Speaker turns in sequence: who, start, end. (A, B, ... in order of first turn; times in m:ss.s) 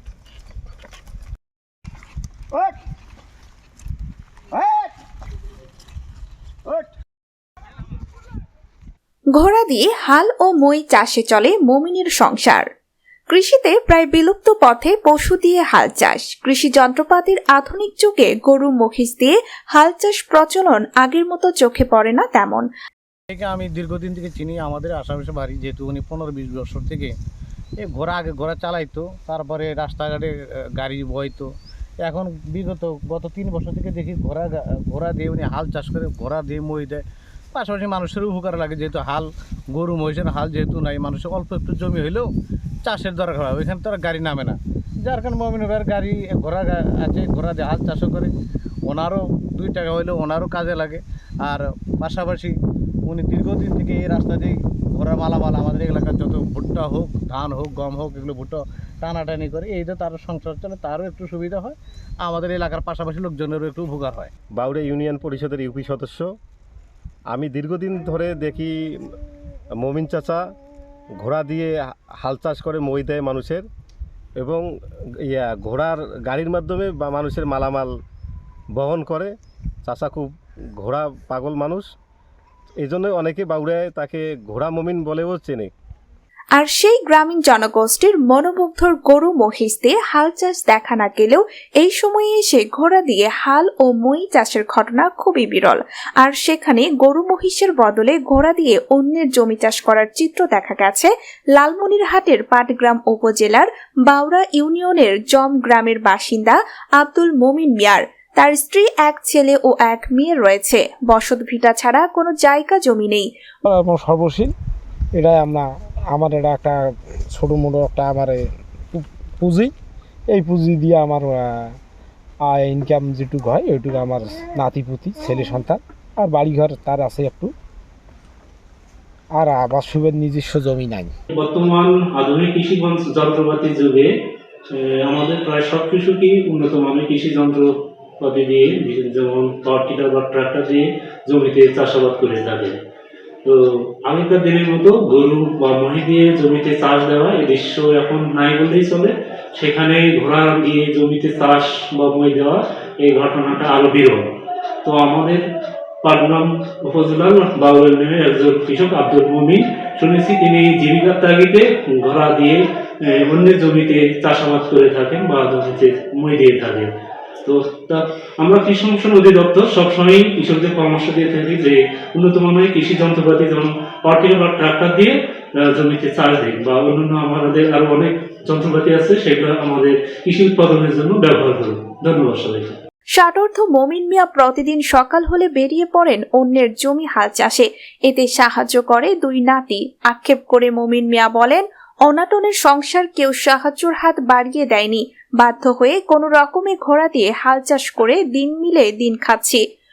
0:04.6-0:04.8 A
0:09.4-0:12.7 B
0:13.3-0:22.7 B
0:23.3-0:27.1 C
0:27.8-0:31.5 C
0:32.0-0:37.0 C
0:37.5-0:42.3 C
0:42.8-0:48.3 C
0:48.8-0:52.5 C
0:53.0-1:04.3 C
1:04.6-1:06.3 D
1:07.3-1:08.7 D
1:09.8-1:10.4 D
1:11.2-1:13.6 D
1:14.4-1:14.6 D
1:15.2-1:17.9 D
1:18.8-1:19.3 D
1:19.8-1:21.9 D
1:22.8-1:25.7 D
1:26.6-1:53.3 B
1:53.6-1:54.5 A
1:55.2-1:58.4 A
1:58.9-1:59.7 A
2:00.3-2:01.7 A
2:02.4-2:07.5 A
2:09.3-2:11.1 A
2:11.3-2:14.1 E
2:14.7-2:22.8 E
2:23.4-2:34.3 E
2:34.8-2:35.4 E
2:36.0-2:46.9 E
2:47.4-3:02.8 E
3:03.2-3:19.6 B